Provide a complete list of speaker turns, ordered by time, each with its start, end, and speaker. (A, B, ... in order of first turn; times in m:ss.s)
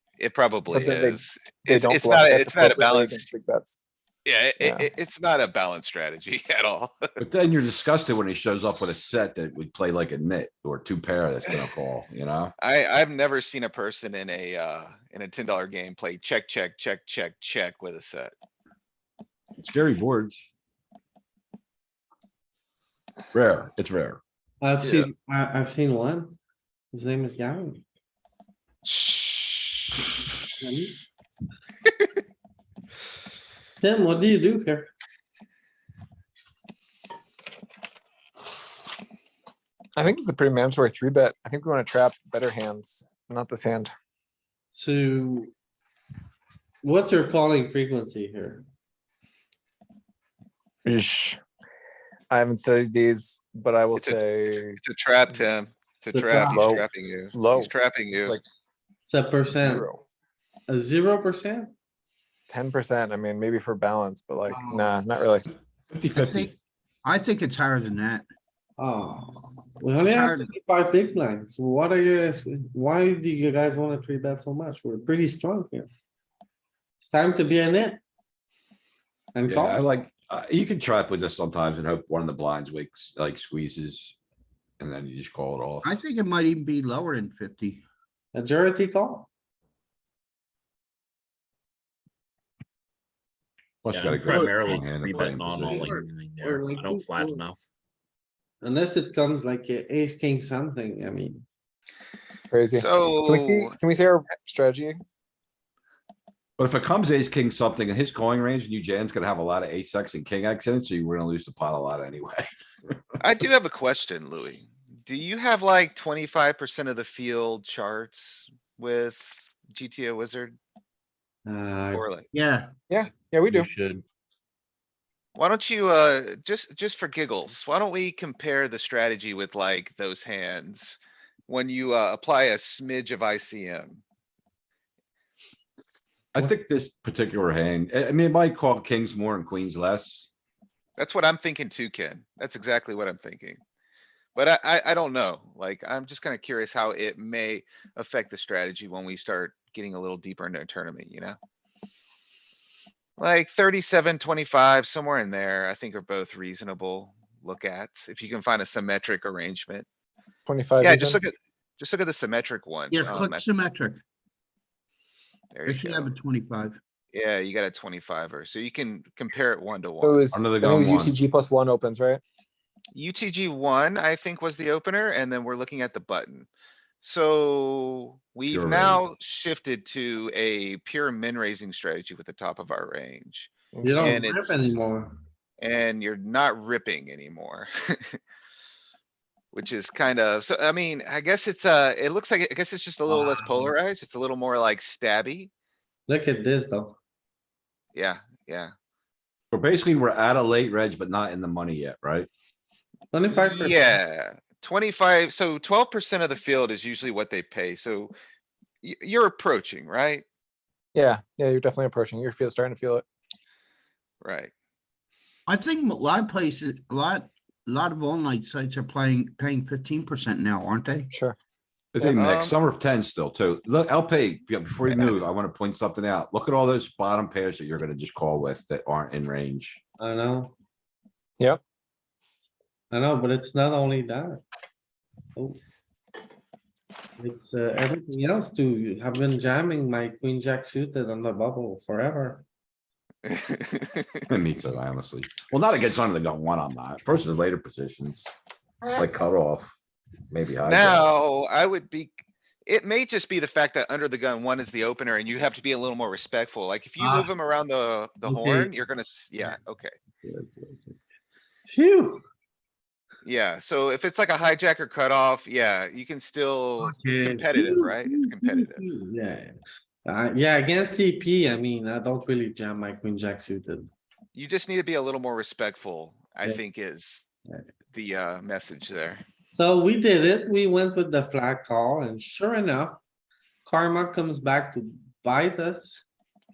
0:00.2-0:03.3 A
0:00.7-0:03.8 B
0:04.3-0:07.2 A
0:04.6-0:04.9 B
0:07.2-0:12.5 C
0:12.6-0:18.3 A
0:19.6-0:20.5 C
0:23.3-0:24.2 C
0:24.6-0:26.4 D
0:24.8-0:25.1 A
0:26.9-0:27.8 D
0:28.8-0:30.1 A
0:30.6-0:31.0 D
0:33.8-0:34.9 D
0:40.0-0:43.9 B
0:44.7-0:45.5 D
0:46.8-0:48.7 D
0:50.9-0:51.4 B
0:52.3-0:54.8 B
0:54.8-0:58.4 A
0:56.1-0:56.8 D
0:56.3-0:58.4 B
0:59.1-0:59.9 D
0:59.6-1:00.0 B
1:00.7-1:01.7 D
1:02.5-1:05.5 B
1:04.5-1:05.0 D
1:05.9-1:06.5 C
1:06.1-1:06.5 E
1:07.0-1:08.3 E
1:08.8-1:15.9 D
1:10.1-1:10.5 E
1:17.0-1:18.0 D
1:19.4-1:19.8 D
1:19.5-1:24.2 C
1:24.8-1:25.9 C
1:25.8-1:27.8 E
1:28.3-1:29.3 D
1:33.8-1:36.0 C
1:33.9-1:37.6 F
1:35.6-1:37.4 D
1:38.6-1:41.4 D
1:42.5-1:45.0 B
1:42.7-1:43.8 A
1:46.6-1:53.0 C
1:53.2-2:00.6 A
2:01.5-2:02.1 D
2:01.9-2:02.3 A
2:02.3-2:02.7 E
2:02.9-2:03.7 B
2:05.4-2:14.0 A
2:16.3-2:20.3 C
2:21.0-2:23.6 A
2:24.4-2:31.4 A
2:33.2-2:39.9 A
2:40.5-2:41.2 B
2:40.8-2:43.4 A
2:42.9-2:44.0 E
2:45.5-2:46.1 A
2:45.7-2:46.8 E
2:47.1-2:50.2 A
2:50.0-2:52.2 B
2:50.3-2:51.2 C
2:52.9-2:56.5 A
2:57.0-3:04.7 A
2:58.5-2:59.0 C
3:03.7-3:04.2 B
3:03.8-3:05.2 D
3:05.6-3:08.2 A
3:09.5-3:15.5 A
3:13.1-3:13.7 D
3:16.1-3:17.0 D
3:18.0-3:18.7 A
3:19.5-3:22.3 C
3:23.1-3:24.0 D
3:23.3-3:28.1 A
3:28.8-3:30.2 A
3:30.9-3:33.0 B
3:34.2-3:34.5 A
3:35.5-3:41.1 E
3:41.9-3:49.8 C
3:42.2-3:42.6 A
3:50.0-3:50.6 D
3:52.9-3:54.4 D
3:55.4-3:55.6 D
3:57.2-4:02.4 D
4:03.3-4:04.2 A
4:04.3-4:08.3 C
4:08.9-4:09.7 C
4:10.3-4:11.0 C
4:10.6-4:19.9 A
4:17.0-4:17.4 D
4:18.2-4:18.7 D
4:20.2-4:21.0 D
4:21.7-4:22.3 D
4:23.2-4:28.9 A
4:26.8-4:33.9 D
4:34.4-4:37.2 A
4:37.9-4:39.2 A
4:39.5-4:43.0 D
4:43.6-4:46.0 D